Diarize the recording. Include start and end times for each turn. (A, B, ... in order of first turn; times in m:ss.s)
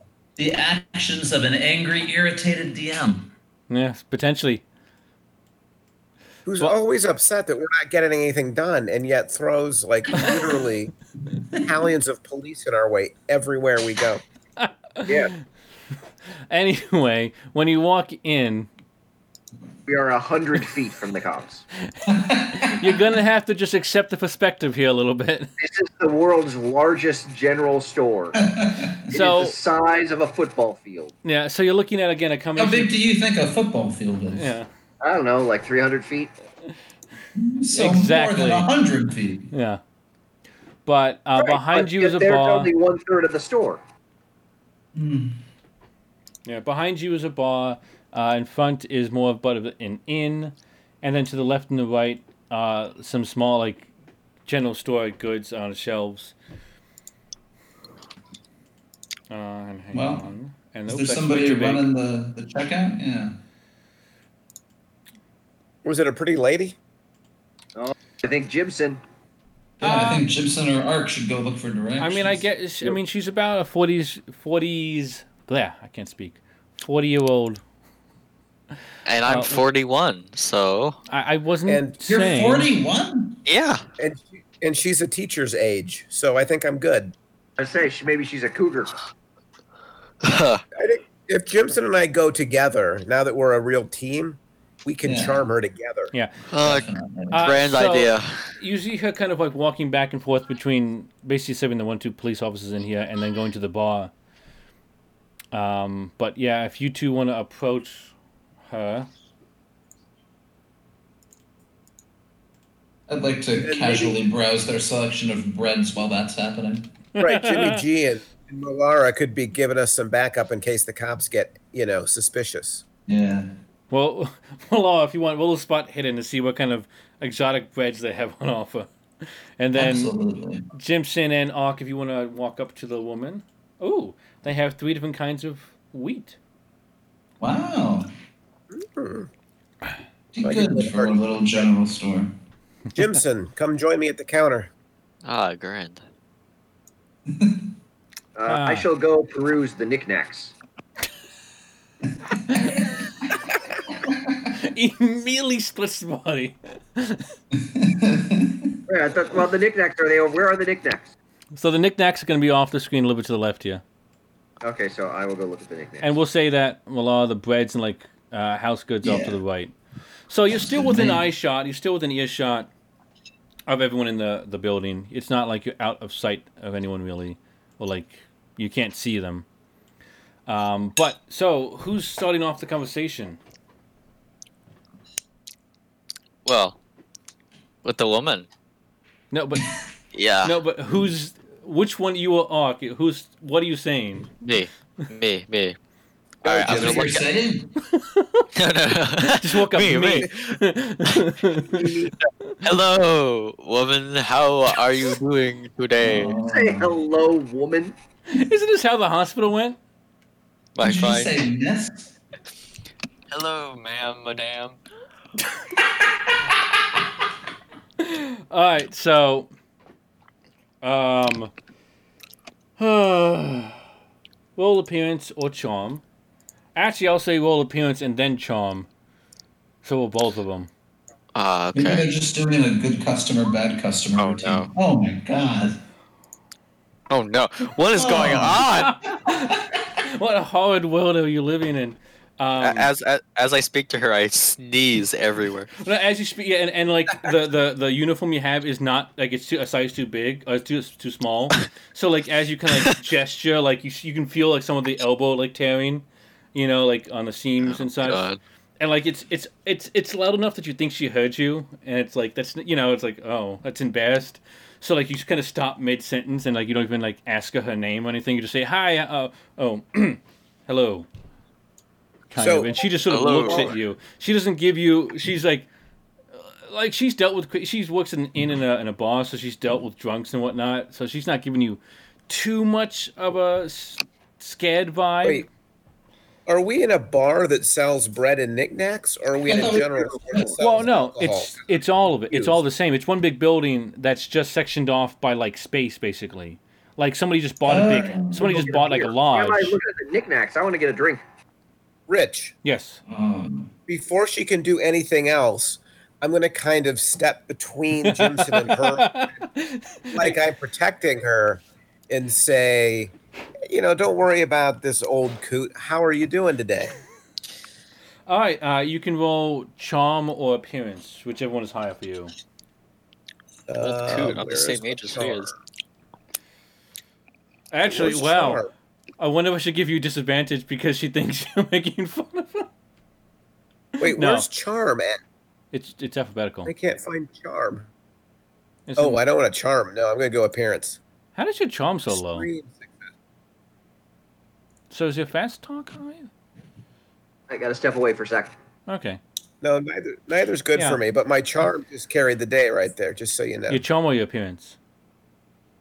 0:00.4-0:03.3 A
0:03.7-0:04.6 B
0:06.5-0:10.9 C
0:11.6-0:14.2 C
0:14.6-0:15.2 B
0:15.1-0:15.3 D
0:16.5-0:18.7 B
0:19.9-0:21.6 D
0:22.1-0:22.9 A
0:22.5-0:25.5 B
0:25.6-0:28.4 D
0:28.4-0:29.0 A
0:29.1-0:31.1 D
0:29.1-0:29.6 B
0:31.2-0:32.9 B
0:32.6-0:34.5 A
0:34.3-0:34.7 B
0:35.0-0:36.3 D
0:37.4-0:39.5 A
0:37.7-0:38.7 B
0:39.5-0:39.8 B
0:40.9-0:42.7 B
0:41.4-0:43.8 D
0:44.9-0:45.4 A
0:46.5-0:53.9 B
0:54.5-0:56.3 B
0:59.3-1:01.8 B
0:59.9-1:00.2 A
1:00.9-1:03.4 A
1:05.8-1:06.8 C
1:07.8-1:09.0 D
1:09.8-1:10.2 B
1:09.8-1:12.4 A
1:12.0-1:17.6 B
1:19.1-1:21.0 E
1:19.2-1:19.6 B
1:21.1-1:22.7 B
1:21.7-1:22.0 C
1:22.1-1:23.4 A
1:23.5-1:23.8 E
1:24.0-1:27.1 C
1:27.6-1:29.0 D
1:30.2-1:30.6 E
1:30.8-1:36.1 C
1:35.0-1:35.4 A
1:36.5-1:38.5 E
1:36.6-1:37.5 A
1:37.3-1:44.1 B
1:45.5-1:48.1 B
1:48.7-1:49.1 B
1:53.1-1:56.9 A
1:53.6-1:54.2 C
1:57.2-1:57.8 B
1:57.2-2:02.8 C
2:03.1-2:03.5 A
2:03.9-2:10.1 B
2:09.8-2:10.7 A
2:10.7-2:16.4 B
2:17.4-2:18.1 A
2:18.7-2:19.3 C
2:20.3-2:22.3 A
2:20.4-2:21.7 C
2:23.0-2:24.7 C
2:25.2-2:26.0 E
2:27.3-2:27.6 A
2:28.4-2:30.5 D
2:28.5-2:28.9 B
2:32.5-2:32.8 B
2:34.6-2:37.3 B
2:37.6-2:38.8 A
2:38.9-2:41.1 D
2:41.5-2:43.8 B
2:44.6-2:46.1 D
2:46.0-2:49.7 B
2:49.0-2:49.4 A
2:50.3-2:52.7 B
2:50.6-2:51.2 A
2:53.7-2:59.5 B
3:00.5-3:03.4 B
3:06.4-3:06.8 E
3:07.8-3:08.5 E
3:09.3-3:09.7 B
3:10.1-3:10.6 E
3:10.4-3:14.3 B
3:14.4-3:15.8 E
3:16.4-3:17.3 E
3:16.4-3:17.1 C
3:16.6-3:17.7 A
3:17.9-3:18.5 B
3:18.6-3:20.4 E
3:19.2-3:21.9 B
3:21.8-3:22.1 C
3:22.6-3:26.4 E
3:26.0-3:27.0 A
3:26.5-3:28.0 D
3:28.3-3:29.8 B
3:30.8-3:31.3 E
3:30.8-3:32.1 A
3:33.3-3:34.8 E
3:38.0-3:39.5 B
3:40.8-3:41.5 B
3:42.8-3:43.8 B
3:44.6-3:46.0 B
3:46.8-3:48.9 B
3:49.8-3:50.7 B
3:51.3-3:52.1 E
3:51.7-3:55.8 A
3:54.2-3:54.7 E
3:57.1-3:59.0 E
3:57.9-3:58.9 A
3:58.7-4:02.9 B
4:02.6-4:05.7 E
4:05.8-4:18.2 B
4:17.6-4:18.4 E
4:18.8-4:31.1 B
4:32.3-4:35.7 B
4:32.4-4:32.8 C
4:33.1-4:33.8 E
4:36.4-4:45.5 B
4:46.5-4:51.7 C
4:49.5-4:50.5 A
4:50.0-4:50.6 D
4:50.6-4:59.8 B
4:52.3-4:52.6 C
4:57.7-4:58.6 A
4:58.5-5:01.2 D
5:02.1-5:02.6 C
5:02.6-5:03.0 B
5:03.1-5:03.7 A
5:03.9-5:09.2 C
5:08.0-5:10.4 B
5:10.1-5:13.1 C
5:13.7-5:16.9 C
5:18.3-5:22.3 B
5:23.7-5:25.5 C
5:23.8-5:25.5 E
5:27.7-5:28.6 B
5:27.9-5:28.7 C
5:29.2-5:32.7 B
5:34.0-5:34.5 B
5:34.0-5:35.2 C
5:35.7-5:36.7 B
5:36.7-5:37.9 C
5:38.9-5:39.2 B
5:39.0-5:41.0 C
5:41.4-5:42.5 B
5:42.1-5:43.1 C
5:44.9-5:46.3 B
5:47.5-5:48.5 D
5:48.9-5:49.2 B
5:49.6-5:53.8 C
5:50.8-5:51.0 B
5:53.7-5:54.8 B